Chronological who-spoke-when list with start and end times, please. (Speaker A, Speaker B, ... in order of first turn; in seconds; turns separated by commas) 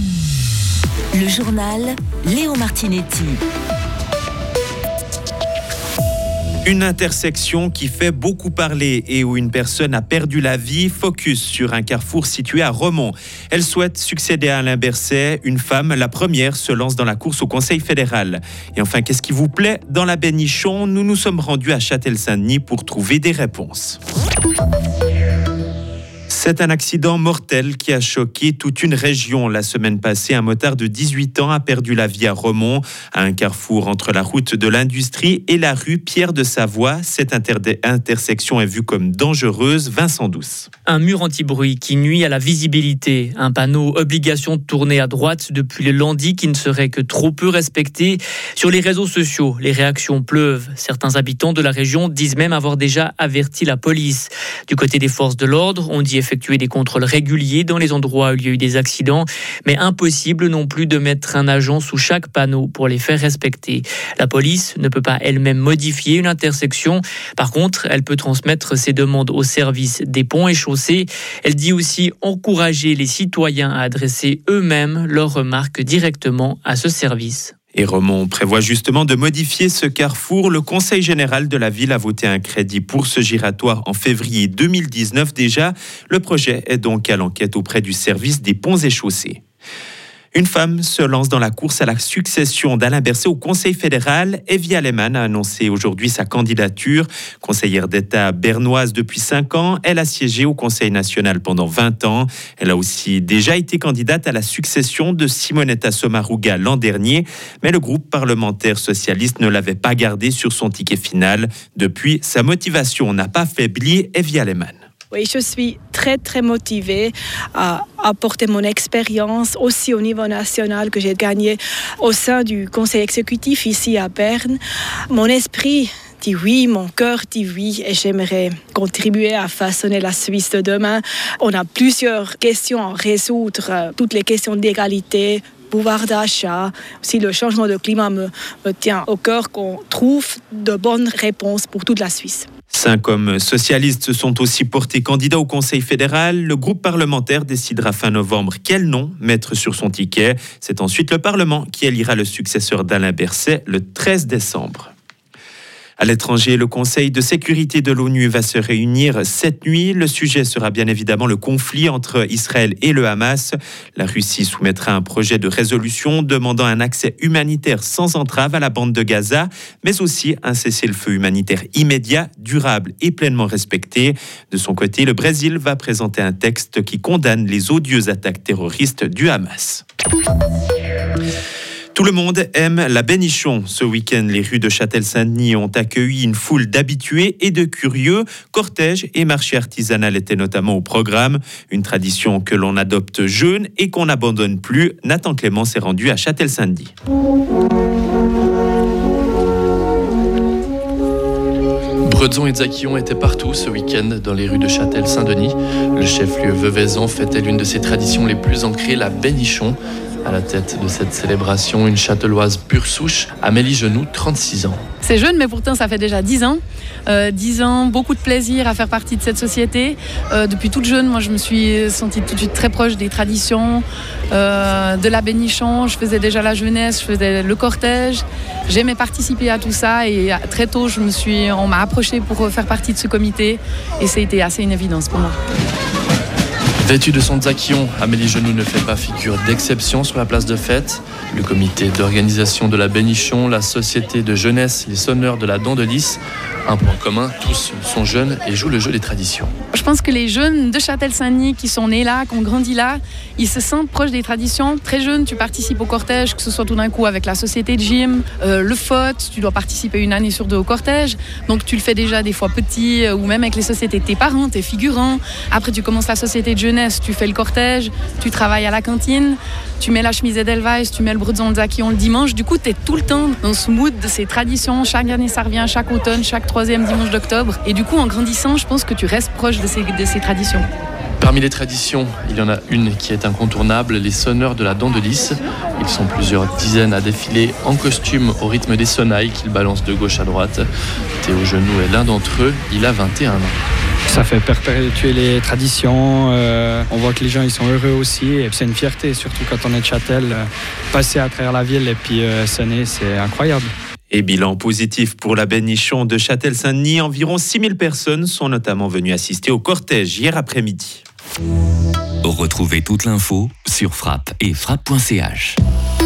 Speaker A: 1.1-3.4, Speaker B: 6.7-24.0, Speaker B: 26.3-40.7, Speaker C: 40.9-77.5, Speaker B: 77.7-89.4, Speaker B: 90.3-114.8, Speaker D: 115.1-124.6, Speaker D: 125.1-142.5, Speaker B: 142.7-154.9, Speaker B: 156.0-179.8, Speaker B: 181.9-196.9, Speaker E: 202.0-214.8, Speaker F: 215.0-235.4, Speaker E: 236.8-249.5, Speaker F: 249.7-280.6, Speaker E: 281.2-290.7, Speaker E: 291.2-293.6, Speaker G: 294.1-303.7, Speaker B: 304.1-311.0, Speaker H: 312.2-315.6